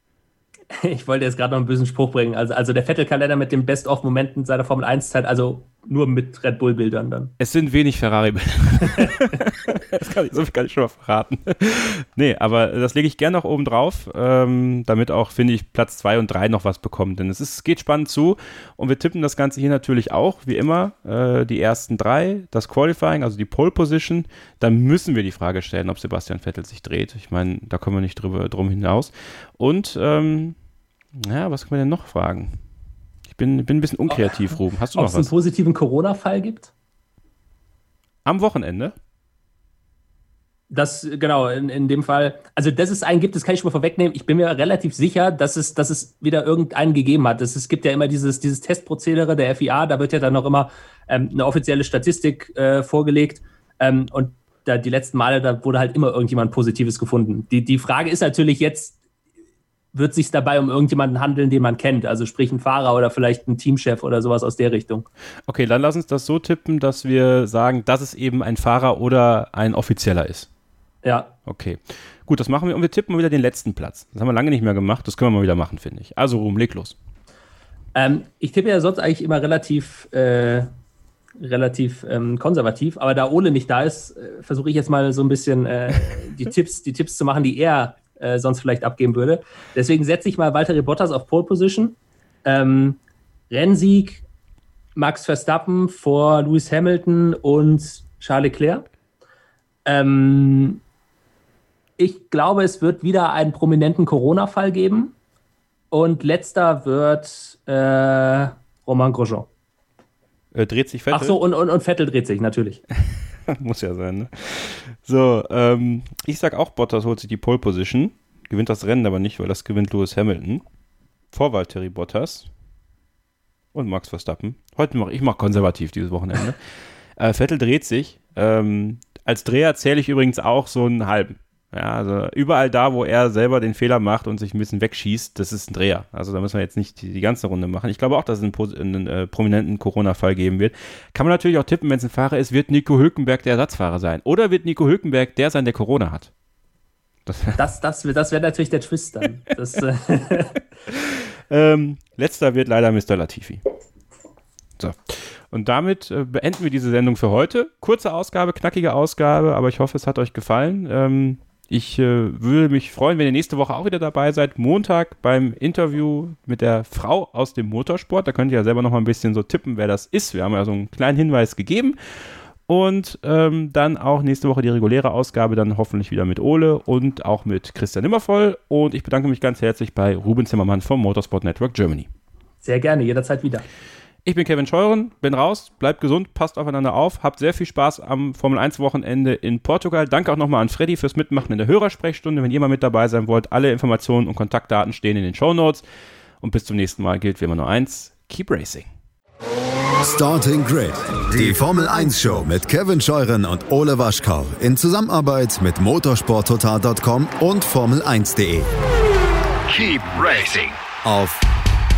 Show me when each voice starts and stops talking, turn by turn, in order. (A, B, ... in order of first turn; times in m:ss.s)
0:00.8-0:07.3 A
0:07.4-0:30.5 B
0:31.2-0:32.6 B
0:33.3-0:35.3 B
0:34.1-0:36.7 A
0:38.2-0:38.9 B
0:40.7-0:59.0 A
0:59.9-1:05.1 A
1:05.5-1:10.5 B
1:11.0-1:11.3 A
1:11.5-1:16.9 B
1:17.9-1:20.7 A
1:21.4-1:33.0 A
1:33.5-1:34.2 A
1:35.0-1:38.8 A
1:39.8-1:40.8 A
1:42.0-1:45.1 A
1:45.9-1:49.5 A
1:50.5-1:51.4 B
1:51.1-1:52.8 A
1:53.5-2:00.6 B
2:01.3-2:02.5 B
2:03.7-2:06.6 B
2:07.2-2:26.3 B
2:27.3-2:27.6 B
2:27.6-2:30.6 A
2:30.9-2:33.6 B
2:34.8-2:52.0 B
2:52.7-3:02.1 B
3:02.6-3:03.6 A
3:04.2-3:15.8 B
3:16.4-3:18.8 B
3:20.0-3:28.7 C
3:29.7-3:31.4 C